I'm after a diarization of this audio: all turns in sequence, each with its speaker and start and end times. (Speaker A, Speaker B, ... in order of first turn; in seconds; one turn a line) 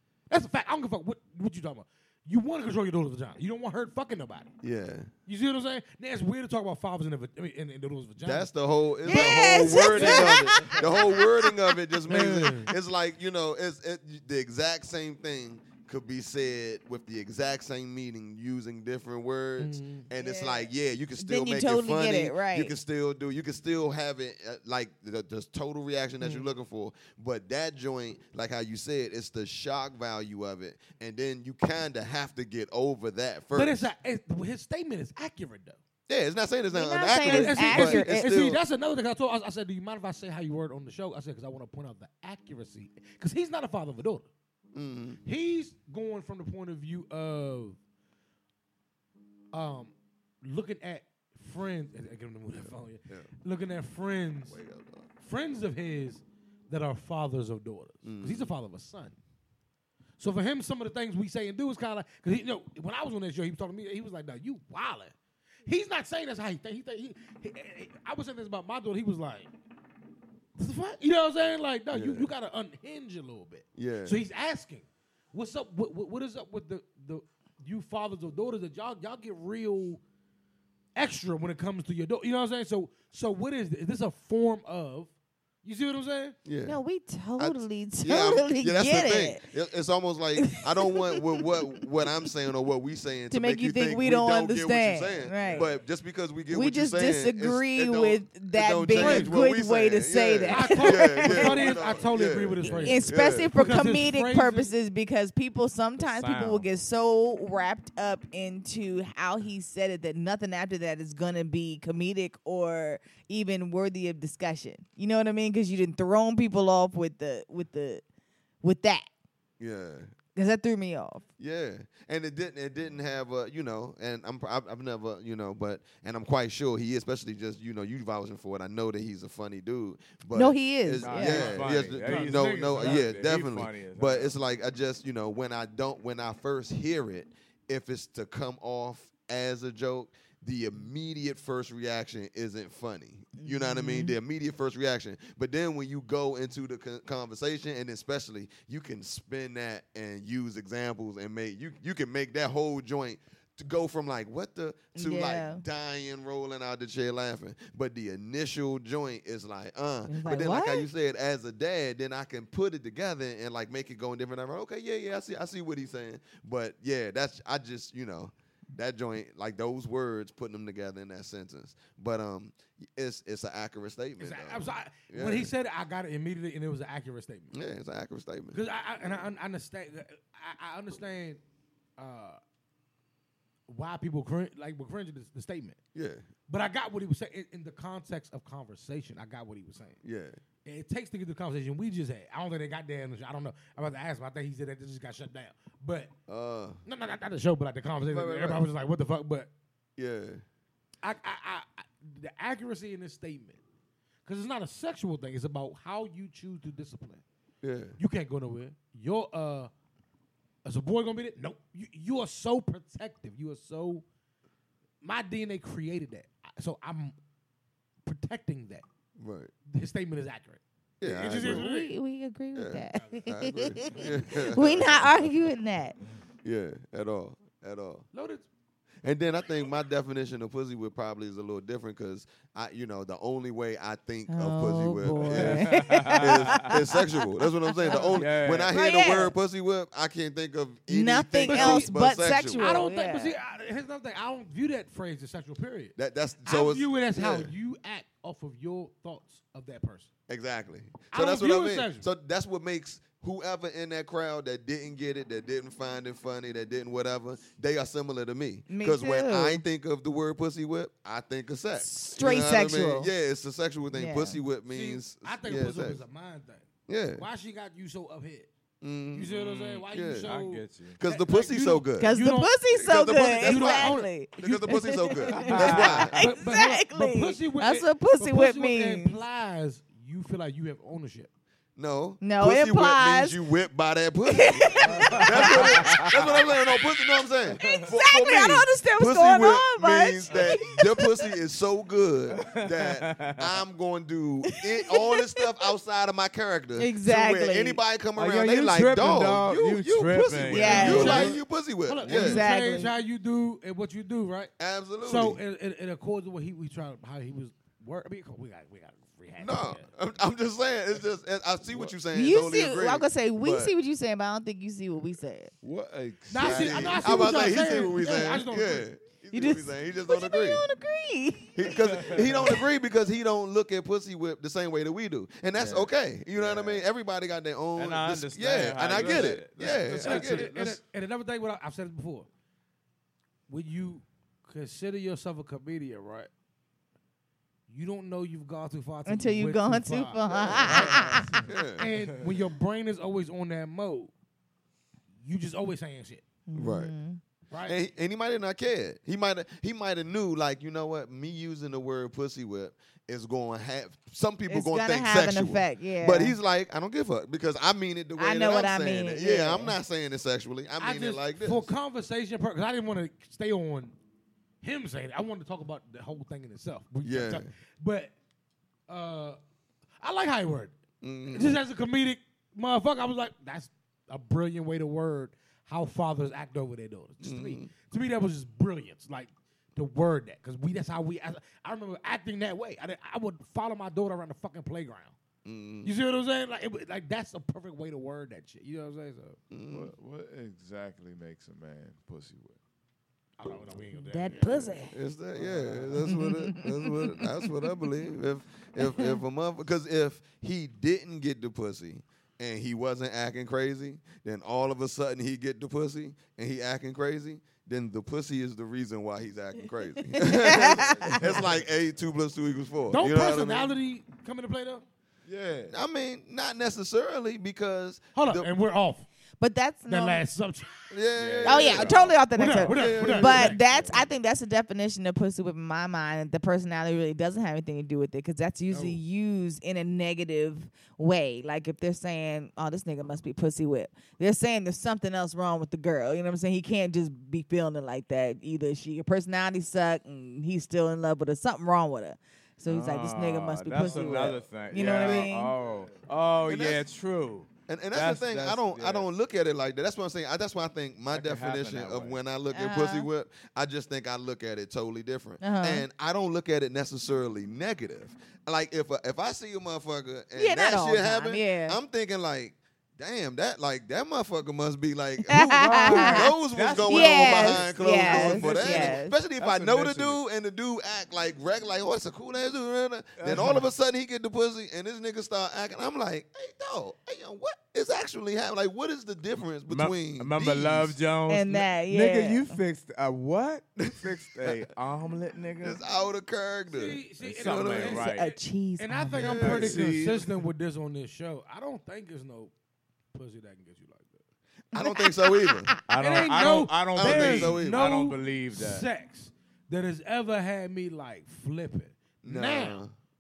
Speaker A: 0.3-4.5
Speaker B: 4.6-5.1
Speaker A: 5.2-10.8
Speaker B: 8.2-33.9
Speaker C: 9.1-11.5
Speaker A: 12.1-12.7
Speaker A: 19.6-20.1
Speaker C: 20.1-22.7
Speaker A: 26.2-26.5
Speaker A: 33.5-35.8
Speaker B: 36.1-38.6
Speaker C: 36.7-38.4
Speaker A: 37.2-44.3
Speaker B: 44.7-45.2
Speaker A: 45.2-47.8
Speaker A: 49.5-54.6
Speaker B: 52.5-53.3
Speaker B: 54.5-55.1
Speaker A: 55.2-59.2
Speaker B: 58.0-58.5
Speaker A: 60.2-65.1
Speaker A: 65.7-69.5
Speaker A: 70.6-80.0
Speaker B: 71.9-72.3
Speaker B: 73.7-74.2
Speaker A: 81.0-85.1
Speaker A: 85.6-86.4
Speaker B: 86.4-86.8
Speaker C: 86.7-89.4
Speaker B: 87.4-103.8
Speaker C: 90.5-91.6
Speaker C: 93.3-95.7
Speaker C: 96.5-101.8
Speaker A: 98.9-99.3
Speaker A: 100.5-104.7
Speaker D: 102.6-103.0
Speaker C: 102.8-118.0
Speaker D: 106.0-106.7
Speaker C: 118.6-119.1
Speaker B: 119.6-120.1
Speaker C: 120.3-121.2
Speaker B: 121.4-175.5
Speaker C: 130.3-131.6
Speaker D: 131.0-134.3
Speaker A: 132.0-133.1
Speaker C: 143.4-144.1
Speaker C: 154.9-155.6
Speaker C: 160.1-160.9
Speaker A: 174.2-177.5
Speaker B: 177.5-179.2
Speaker A: 178.5-181.4
Speaker A: 182.0-182.4
Speaker A: 183.7-185.8
Speaker B: 185.9-186.3
Speaker A: 186.5-190.0
Speaker B: 190.0-190.4
Speaker A: 190.6-196.1
Speaker B: 196.3-196.8
Speaker A: 196.8-199.5
Speaker B: 198.1-198.6
Speaker B: 200.0-200.4
Speaker A: 201.0-203.6
Speaker A: 204.2-207.2
Speaker B: 207.6-208.0
Speaker A: 208.0-209.7
Speaker A: 210.6-214.0
Speaker A: 215.0-217.2
Speaker A: 218.0-218.8
Speaker B: 219.2-219.5
Speaker A: 219.7-221.9
Speaker B: 221.0-221.6
Speaker C: 221.4-226.0
Speaker B: 222.5-225.3
Speaker B: 226.4-228.1
Speaker A: 228.1-228.5
Speaker B: 229.0-242.9
Speaker C: 234.3-238.1
Speaker D: 235.2-236.7
Speaker D: 238.1-238.7
Speaker C: 238.7-239.3
Speaker C: 240.9-243.3
Speaker A: 241.4-242.0
Speaker A: 242.5-250.1
Speaker B: 245.9-247.5
Speaker B: 250.3-266.0
Speaker A: 251.1-252.1
Speaker C: 258.7-259.6
Speaker C: 261.8-263.1
Speaker C: 263.9-264.4
Speaker A: 264.7-268.5
Speaker B: 266.9-267.2
Speaker B: 268.8-269.3
Speaker A: 269.1-272.5
Speaker D: 269.3-271.0
Speaker B: 269.9-270.3
Speaker B: 271.0-272.1
Speaker C: 272.0-279.2
Speaker B: 272.7-276.2
Speaker A: 273.3-274.1
Speaker D: 275.4-276.1
Speaker A: 275.6-281.3
Speaker B: 281.8-302.5
Speaker C: 282.2-283.4
Speaker C: 284.3-291.3
Speaker D: 284.8-286.1
Speaker D: 287.5-287.9
Speaker D: 292.4-293.4
Speaker C: 294.5-295.5
Speaker C: 296.8-297.8
Speaker D: 298.1-301.3
Speaker C: 300.5-301.4
Speaker A: 300.5-304.5
Speaker C: 302.0-302.9
Speaker B: 304.6-305.4
Speaker A: 305.0-309.9
Speaker B: 309.4-313.7
Speaker C: 312.1-315.5
Speaker E: 315.6-317.2
Speaker A: 316.3-318.9
Speaker B: 316.3-320.7
Speaker C: 317.2-318.5
Speaker C: 319.3-322.6
Speaker B: 321.5-330.8
Speaker D: 321.8-322.2
Speaker D: 325.6-326.8
Speaker D: 327.8-330.5
Speaker A: 328.9-332.3
Speaker A: 333.5-336.3
Speaker A: 337.7-344.1
Speaker C: 339.1-341.4
Speaker B: 340.4-340.7
Speaker B: 341.4-341.9
Speaker A: 345.2-346.2
Speaker C: 346.5-347.2
Speaker B: 346.5-346.9
Speaker A: 347.5-347.8
Speaker B: 347.6-361.7
Speaker C: 354.5-356.4
Speaker C: 358.2-359.8
Speaker A: 360.8-363.9
Speaker A: 364.6-368.1
Speaker B: 367.0-367.5
Speaker A: 368.9-369.4
Speaker A: 370.0-370.7
Speaker B: 371.0-371.6
Speaker A: 371.3-385.1
Speaker B: 377.2-377.7
Speaker B: 385.4-385.9
Speaker A: 385.8-389.4
Speaker B: 389.5-389.9
Speaker E: 389.7-392.6
Speaker A: 393.4-394.9
Speaker C: 393.9-394.9
Speaker B: 394.3-413.8
Speaker E: 395.4-395.9
Speaker C: 396.1-397.5
Speaker C: 398.8-399.2
Speaker C: 410.1-411.4
Speaker E: 410.6-411.5
Speaker A: 412.9-414.8
Speaker E: 415.2-415.8
Speaker B: 415.7-418.5
Speaker A: 418.1-419.1
Speaker C: 419.4-420.2
Speaker A: 419.9-420.9
Speaker B: 420.9-422.1
Speaker D: 421.1-422.2
Speaker C: 421.4-445.6
Speaker A: 422.3-423.6
Speaker B: 422.6-423.6
Speaker E: 423.7-424.1
Speaker A: 428.7-429.0
Speaker D: 442.6-449.1
Speaker E: 443.9-444.6
Speaker B: 444.7-445.3
Speaker E: 445.6-446.0
Speaker B: 446.4-446.8
Speaker B: 447.7-481.0
Speaker D: 451.1-452.2
Speaker C: 452.5-453.1
Speaker C: 455.4-455.8
Speaker C: 460.3-461.8
Speaker C: 465.3-466.3
Speaker A: 465.3-466.2
Speaker D: 465.8-470.2
Speaker C: 466.8-469.2
Speaker D: 473.2-473.6
Speaker D: 479.7-485.8
Speaker C: 481.3-482.6
Speaker B: 483.8-484.6
Speaker B: 485.6-488.0
Speaker A: 486.7-492.5
Speaker D: 487.2-488.3
Speaker C: 487.9-489.4
Speaker B: 489.2-490.1
Speaker D: 489.3-490.3
Speaker A: 493.1-494.2
Speaker B: 494.7-495.7
Speaker C: 494.7-495.8
Speaker D: 495.9-498.9
Speaker A: 496.0-502.8
Speaker B: 496.9-497.8
Speaker B: 502.2-502.9